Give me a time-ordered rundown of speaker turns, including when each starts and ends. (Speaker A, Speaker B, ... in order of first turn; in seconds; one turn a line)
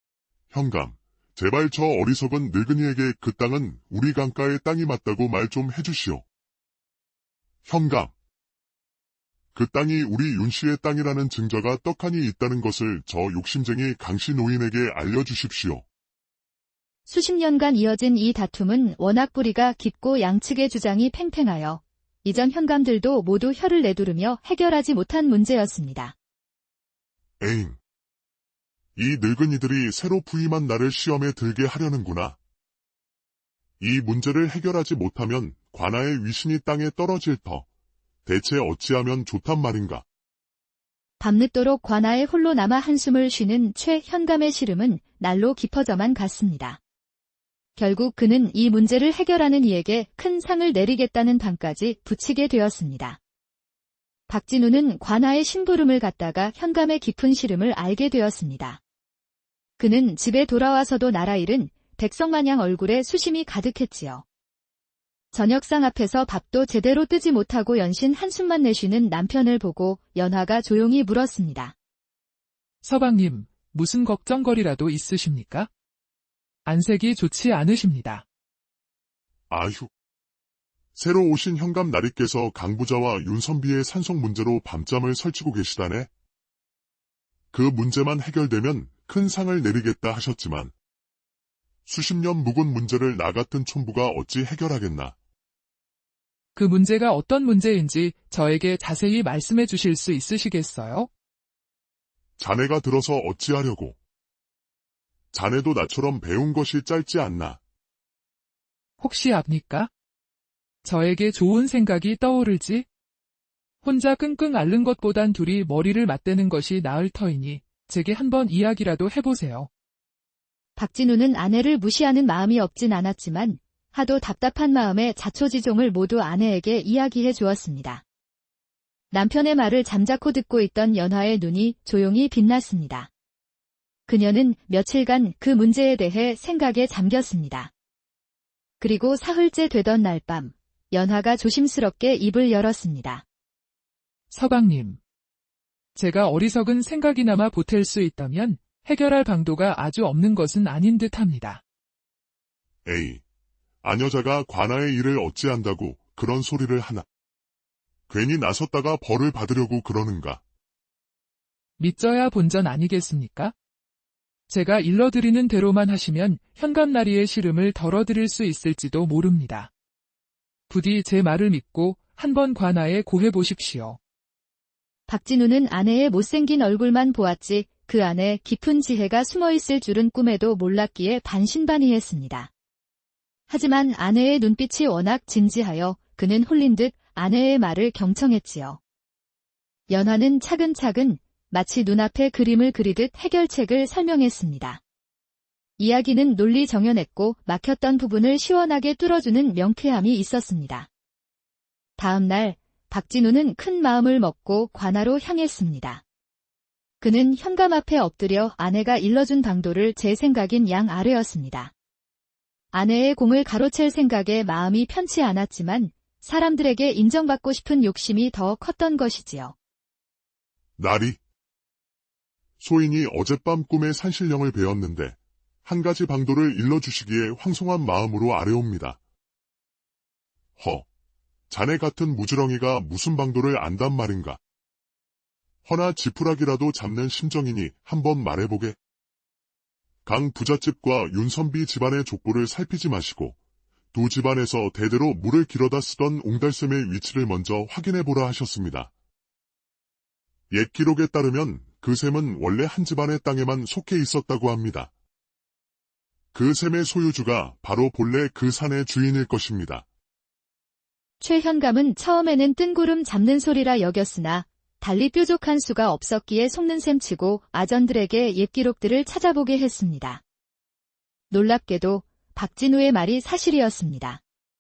Speaker A: 0.5-6.2
Speaker A: 7.7-8.1
Speaker A: 9.5-15.8
Speaker B: 17.1-26.1
Speaker A: 27.4-27.8
Speaker A: 29.0-32.4
Speaker A: 33.8-37.7
Speaker A: 38.3-40.0
Speaker B: 41.2-46.8
Speaker B: 47.8-53.2
Speaker B: 54.3-58.8
Speaker B: 59.8-64.2
Speaker B: 65.3-71.7
Speaker C: 72.8-75.7
Speaker C: 76.7-78.2
Speaker A: 79.5-79.9
Speaker A: 81.0-86.1
Speaker A: 87.5-90.7
Speaker A: 91.9-95.2
Speaker C: 96.6-101.1
Speaker A: 102.4-104.0
Speaker A: 105.3-107.6
Speaker C: 109.0-109.9
Speaker C: 110.8-112.9
Speaker C: 113.8-119.7
Speaker B: 120.8-128.0
Speaker B: 129.1-133.1
Speaker B: 134.1-137.7
Speaker B: 138.8-143.2
Speaker C: 144.3-145.0
Speaker C: 146.0-151.6
Speaker A: 152.8-153.2
Speaker A: 153.8-157.1
Speaker A: 158.1-160.4
Speaker C: 161.8-163.5
Speaker C: 164.5-169.7
Speaker C: 170.7-174.0
Speaker B: 175.1-182.5
Speaker B: 183.5-188.8
Speaker B: 189.9-194.8
Speaker B: 195.8-200.9
Speaker B: 202.0-206.0
Speaker B: 207.0-211.7
Speaker B: 212.7-219.6
Speaker A: 220.8-221.2
Speaker A: 222.6-229.0
Speaker A: 230.6-230.9
Speaker A: 231.5-234.4
Speaker A: 235.7-238.8
Speaker A: 240.1-243.4
Speaker A: 243.9-248.9
Speaker A: 250.5-254.9
Speaker A: 256.3-259.9
Speaker B: 261.2-270.2
Speaker B: 271.3-274.2